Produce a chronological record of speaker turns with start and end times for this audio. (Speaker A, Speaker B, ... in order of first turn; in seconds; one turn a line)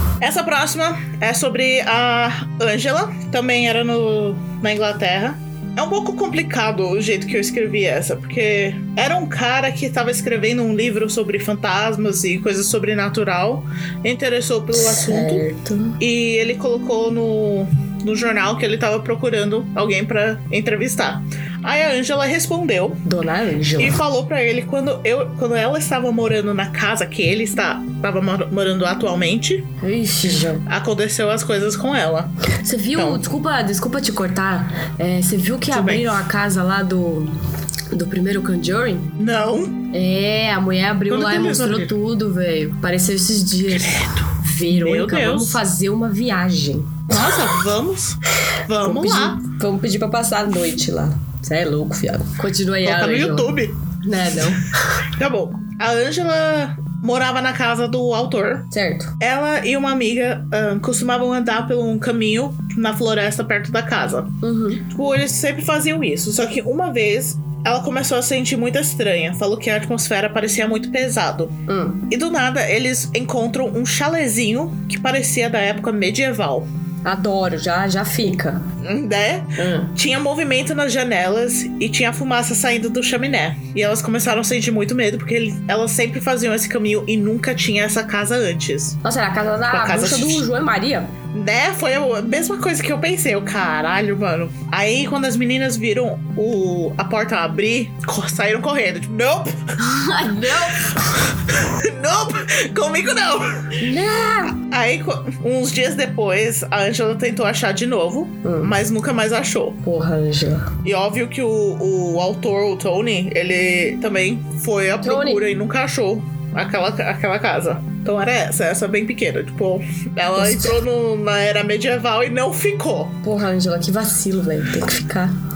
Speaker A: 0.2-15.4
Speaker B: 14.7-16.0
Speaker A: 16.0-23.0
Speaker B: 23.1-24.0
Speaker A: 23.8-29.7
Speaker B: 29.8-30.6
Speaker A: 30.6-32.3
Speaker B: 32.6-37.3
Speaker A: 32.9-33.2
Speaker A: 35.7-36.2
Speaker B: 37.9-39.1
Speaker A: 39.2-39.8
Speaker B: 39.9-47.2
Speaker A: 41.1-41.9
Speaker A: 44.7-45.6
Speaker A: 47.1-49.4
Speaker B: 48.8-54.9
Speaker A: 52.8-53.8
Speaker A: 55.1-58.7
Speaker B: 58.7-59.1
Speaker A: 59.2-64.4
Speaker B: 64.4-64.8
Speaker A: 64.9-71.6
Speaker B: 71.7-72.1
Speaker A: 72.1-76.7
Speaker B: 77.0-78.6
Speaker A: 78.8-89.0
Speaker B: 79.6-79.9
Speaker B: 89.0-91.1
Speaker A: 89.7-90.4
Speaker A: 91.3-99.6
Speaker B: 99.8-101.1
Speaker A: 101.0-103.8
Speaker B: 103.8-104.6
Speaker A: 104.7-109.8
Speaker B: 108.4-108.7
Speaker B: 109.8-110.7
Speaker A: 110.8-123.2
Speaker B: 115.0-115.4
Speaker B: 120.3-120.8
Speaker B: 123.2-125.3